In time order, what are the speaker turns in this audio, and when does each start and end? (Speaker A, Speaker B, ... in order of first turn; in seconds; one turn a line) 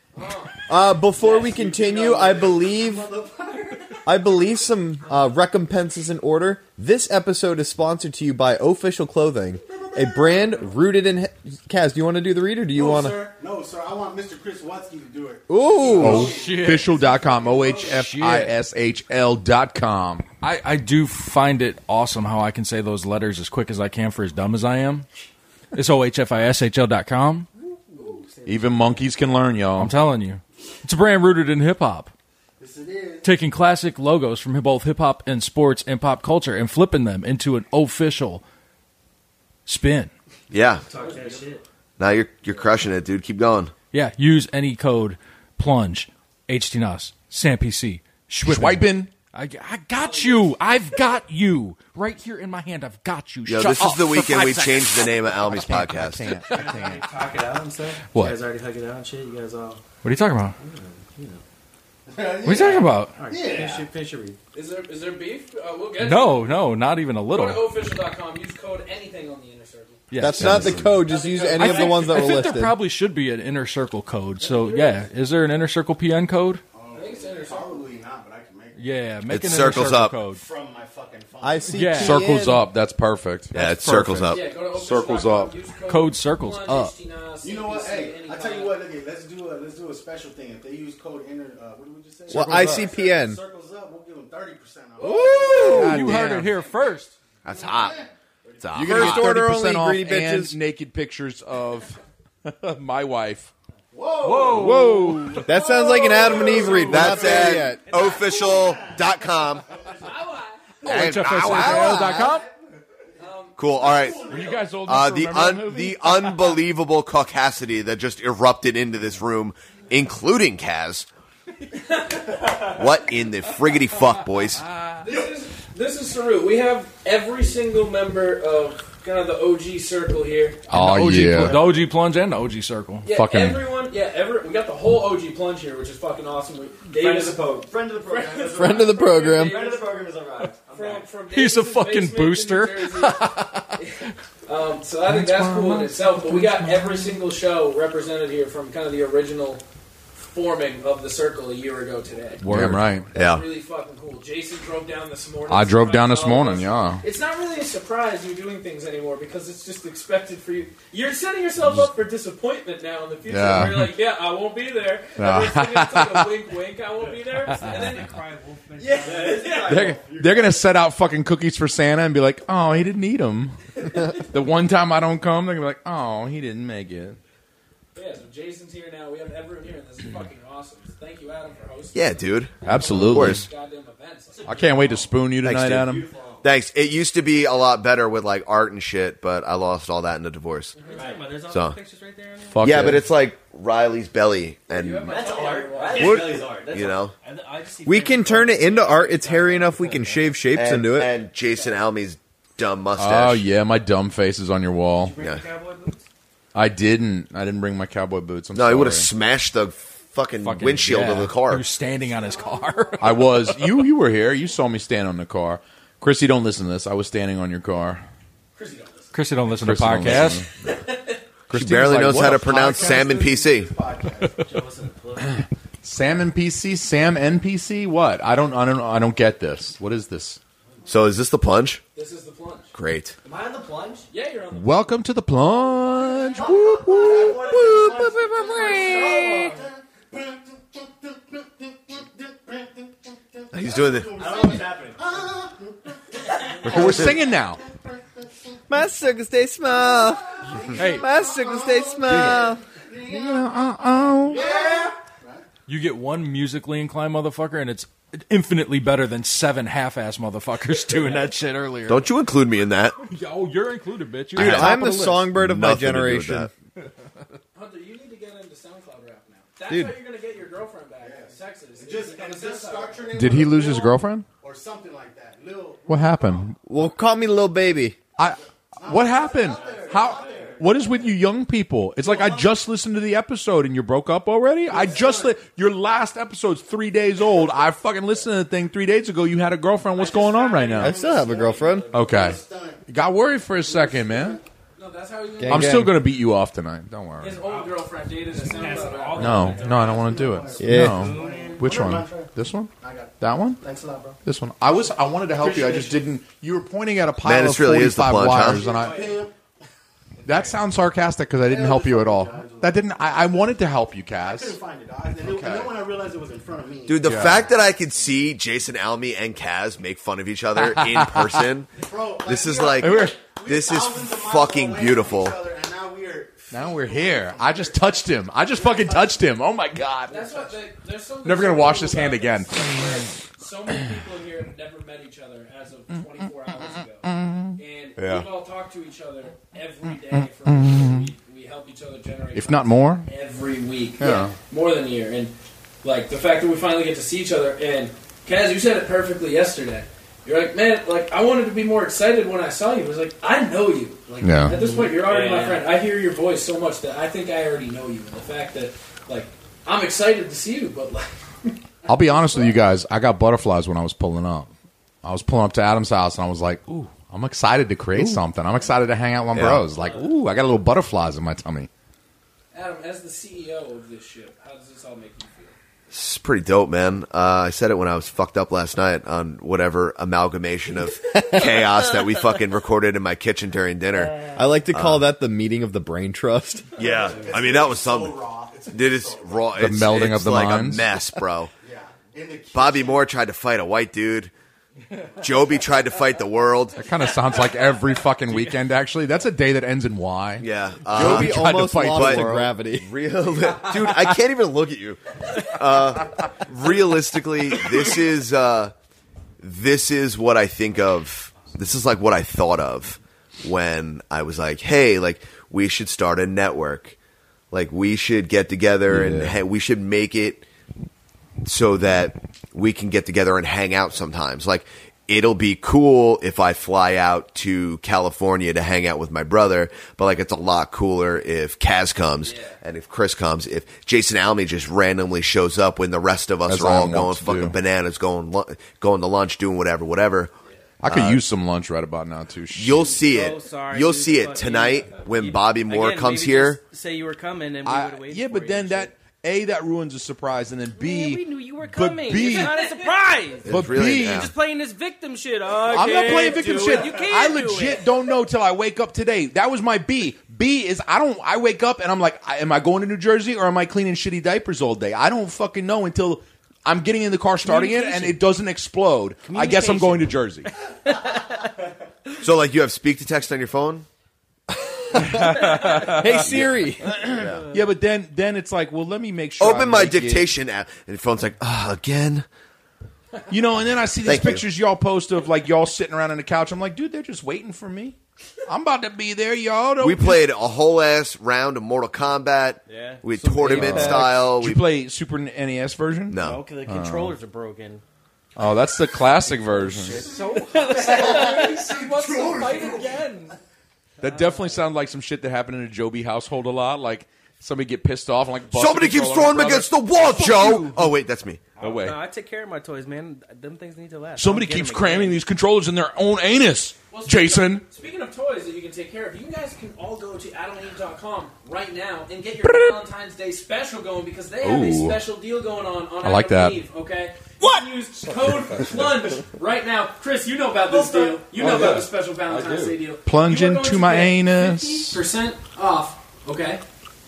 Speaker A: 0.1-0.5
Speaker B: 0.7-3.1
Speaker C: 1.2-4.0
Speaker B: 4.0-13.3
Speaker C: 9.7-10.7
Speaker C: 12.7-17.8
Speaker B: 15.5-16.4
Speaker D: 15.9-20.2
Speaker E: 16.2-17.0
Speaker E: 17.8-18.6
Speaker E: 20.4-25.1
Speaker E: 25.7-27.5
Speaker D: 28.4-29.9
Speaker E: 29.8-32.1
Speaker C: 32.6-33.3
Speaker E: 33.2-38.4
Speaker E: 39.6-40.1
Speaker F: 40.5-40.9
Speaker G: 40.9-41.6
Speaker H: 41.0-41.5
Speaker F: 42.0-43.7
Speaker E: 43.9-57.0
Speaker D: 48.4-49.1
Speaker A: 49.9-50.6
Speaker F: 53.5-56.4
Speaker D: 55.6-56.9
Speaker G: 56.4-59.8
Speaker E: 60.0-60.6
Speaker G: 60.6-61.4
Speaker C: 62.1-63.9
Speaker E: 62.4-63.1
Speaker G: 62.4-64.4
Speaker A: 64.5-66.7
Speaker E: 66.0-67.7
Speaker A: 67.3-70.0
Speaker E: 70.1-70.9
Speaker B: 70.2-72.8
Speaker F: 70.4-70.8
Speaker A: 71.0-72.2
Speaker E: 71.5-76.6
Speaker A: 74.4-75.1
Speaker C: 76.7-78.8
Speaker A: 76.9-77.7
Speaker E: 78.8-80.4
Speaker F: 79.3-80.2
Speaker C: 79.5-82.1
Speaker B: 81.4-82.7
Speaker E: 81.7-82.2
Speaker D: 82.0-83.5
Speaker F: 83.5-84.4
Speaker E: 83.5-84.3
Speaker A: 84.3-88.8
Speaker D: 84.7-85.5
Speaker E: 85.9-86.9
Speaker C: 87.4-96.2
Speaker B: 92.3-93.4
Speaker E: 95.0-97.1
Speaker A: 95.0-95.3
Speaker D: 95.2-96.6
Speaker F: 97.4-98.0
Speaker C: 97.5-99.0
Speaker F: 98.6-99.3
Speaker D: 98.8-103.5
Speaker B: 98.8-100.6
Speaker C: 103.9-109.0
Speaker E: 104.2-105.5
Speaker D: 104.5-105.4
Speaker B: 105.4-107.9
Speaker F: 106.7-109.7
Speaker C: 109.8-110.1
Speaker A: 110.0-110.6
Speaker F: 110.8-112.1
Speaker E: 110.8-112.4
Speaker D: 110.9-112.2
Speaker C: 111.9-112.5
Speaker A: 113.2-114.4
Speaker F: 113.5-121.1
Speaker C: 113.7-114.7
Speaker D: 114.3-116.2
Speaker A: 121.8-122.4
Speaker F: 122.6-124.7
Speaker A: 125.0-130.6
Speaker D: 130.7-131.7
Speaker E: 130.7-133.1
Speaker A: 133.0-139.9
Speaker D: 133.1-133.6
Speaker H: 136.9-141.1
Speaker B: 138.5-139.6
Speaker A: 140.7-149.6
Speaker E: 141.3-143.8
Speaker D: 145.0-147.2
Speaker A: 150.2-152.4
Speaker D: 152.4-153.1
Speaker E: 152.4-152.9
Speaker F: 153.1-153.4
Speaker A: 153.1-168.1
Speaker D: 155.5-157.0
Speaker D: 161.6-161.8
Speaker D: 163.2-164.0
Speaker D: 165.2-166.3
Speaker G: 167.6-169.2
Speaker A: 168.8-169.9
Speaker H: 168.8-170.7
Speaker D: 169.7-177.2
Speaker A: 177.9-184.7
Speaker F: 181.9-182.6
Speaker D: 182.6-183.4
Speaker F: 183.1-183.4
Speaker H: 184.3-185.2
Speaker D: 184.4-186.1
Speaker F: 185.3-190.7
Speaker H: 185.8-186.4
Speaker A: 190.8-191.0
Speaker G: 190.8-192.8
Speaker H: 190.9-191.4
Speaker F: 191.4-191.8
Speaker D: 192.5-193.1
Speaker F: 192.6-195.4
Speaker A: 194.7-196.4
Speaker H: 195.1-197.1
Speaker G: 195.8-196.0
Speaker F: 196.0-197.1
Speaker G: 197.2-200.4
Speaker B: 197.8-201.1
Speaker F: 200.5-203.5
Speaker D: 203.0-205.2
Speaker H: 205.1-206.0
Speaker F: 205.2-205.4
Speaker G: 205.2-205.9
Speaker D: 206.5-209.1
Speaker F: 208.5-211.7
Speaker E: 210.4-213.4
Speaker C: 212.0-213.1
Speaker D: 213.0-218.0
Speaker A: 218.6-219.1
Speaker E: 219.1-220.4
Speaker D: 219.5-220.5
Speaker D: 221.5-222.9
Speaker F: 221.5-223.7
Speaker C: 222.2-224.5
Speaker G: 224.4-225.4
Speaker D: 225.2-230.4
Speaker F: 230.8-231.8
Speaker A: 231.9-232.7
Speaker F: 232.7-233.2
Speaker H: 233.2-234.1
Speaker A: 234.1-234.9
Speaker D: 234.5-239.5
Speaker C: 236.3-248.6
Speaker H: 237.1-239.5
Speaker A: 239.2-239.6
Speaker F: 243.5-244.2
Speaker H: 244.2-245.2
Speaker D: 246.6-247.6
Speaker B: 248.7-252.6
Speaker C: 249.6-255.4
Speaker E: 250.8-251.1
Speaker D: 253.0-254.4
Speaker H: 254.4-254.8
Speaker E: 255.7-262.1
Speaker F: 261.9-263.0
Speaker E: 263.1-265.2
Speaker B: 264.4-266.5
Speaker F: 264.4-266.5
Speaker A: 267.5-273.0
Speaker B: 269.7-269.9
Speaker C: 271.0-276.5
Speaker D: 273.1-274.3
Speaker D: 275.9-276.6
Speaker B: 276.6-278.0
Speaker D: 278.2-291.0
Speaker C: 278.8-281.0
Speaker H: 279.4-280.6
Speaker H: 282.1-282.5
Speaker C: 284.7-285.3
Speaker H: 290.0-292.2
Speaker C: 290.7-292.8
Speaker B: 290.8-291.9
Speaker D: 291.9-294.4
Speaker C: 293.6-294.4
Speaker A: 294.8-295.8
Speaker B: 295.4-296.1
Speaker D: 295.5-297.4
Speaker A: 297.2-299.6
Speaker G: 297.5-297.7
Speaker G: 298.3-300.2
Speaker D: 299.1-303.6
Speaker C: 299.5-304.2
Speaker B: 300.6-301.1
Speaker G: 300.7-301.6
Speaker D: 304.2-309.1
Speaker H: 305.4-306.0
Speaker F: 307.2-308.7
Speaker H: 308.6-309.2
Speaker C: 308.7-309.3
Speaker H: 310.2-310.6
Speaker D: 310.2-314.6
Speaker C: 311.4-313.6
Speaker C: 314.1-317.6
Speaker D: 315.2-315.7
Speaker F: 316.9-321.7
Speaker D: 317.0-317.4
Speaker D: 320.6-321.5
Speaker C: 321.8-329.3
Speaker F: 322.2-325.4
Speaker D: 322.8-323.2
Speaker D: 326.5-330.5
Speaker A: 330.1-362.5
Speaker D: 331.2-333.1
Speaker D: 337.0-337.5
Speaker F: 338.0-338.2
Speaker D: 340.4-341.1
Speaker D: 342.3-343.1
Speaker D: 344.0-344.3
Speaker H: 354.1-354.4
Speaker D: 354.2-354.6
Speaker G: 354.5-355.6
Speaker D: 361.9-364.5
Speaker D: 365.0-371.7
Speaker F: 369.3-369.7
Speaker A: 372.5-375.5
Speaker F: 375.9-385.1
Speaker G: 384.1-384.4
Speaker B: 384.3-386.7
Speaker C: 386.8-389.6
Speaker F: 386.8-391.5
Speaker D: 389.6-390.9
Speaker C: 391.6-393.1
Speaker F: 392.5-394.3
Speaker F: 395.2-396.8
Speaker D: 396.7-402.5
Speaker F: 400.4-408.7
Speaker B: 400.9-402.9
Speaker F: 409.4-416.9
Speaker F: 417.5-420.4
Speaker B: 418.9-419.3
Speaker F: 421.4-440.3
Speaker D: 436.4-437.5
Speaker D: 440.8-443.0
Speaker F: 440.8-441.2
Speaker F: 442.5-446.6
Speaker G: 443.0-448.9
Speaker D: 447.6-452.7
Speaker G: 450.7-458.1
Speaker A: 452.3-452.9
Speaker F: 453.4-454.3
Speaker D: 453.5-454.3
Speaker D: 455.6-470.5
Speaker G: 467.5-467.9
Speaker G: 469.2-470.2
Speaker G: 470.9-471.4
Speaker F: 472.2-473.9
Speaker D: 474.9-476.3
Speaker B: 474.9-476.9
Speaker F: 476.0-477.4
Speaker D: 476.8-480.3
Speaker F: 479.4-482.2
Speaker D: 483.3-490.3
Speaker F: 484.0-484.4
Speaker F: 489.8-494.7
Speaker G: 492.7-493.1
Speaker B: 493.2-494.1
Speaker D: 493.4-497.1
Speaker F: 496.1-496.5
Speaker G: 496.1-497.8
Speaker D: 498.4-500.0
Speaker C: 499.9-503.1
Speaker G: 499.9-501.6
Speaker A: 500.2-503.3
Speaker D: 504.0-510.7
Speaker F: 508.5-511.5
Speaker E: 510.0-510.6
Speaker G: 511.6-515.2
Speaker D: 511.6-512.0
Speaker D: 514.1-517.6
Speaker A: 516.9-536.6
Speaker D: 524.4-525.0
Speaker D: 526.0-526.6
Speaker H: 530.7-531.2
Speaker E: 531.4-532.6
Speaker D: 531.4-531.8
Speaker D: 533.0-535.0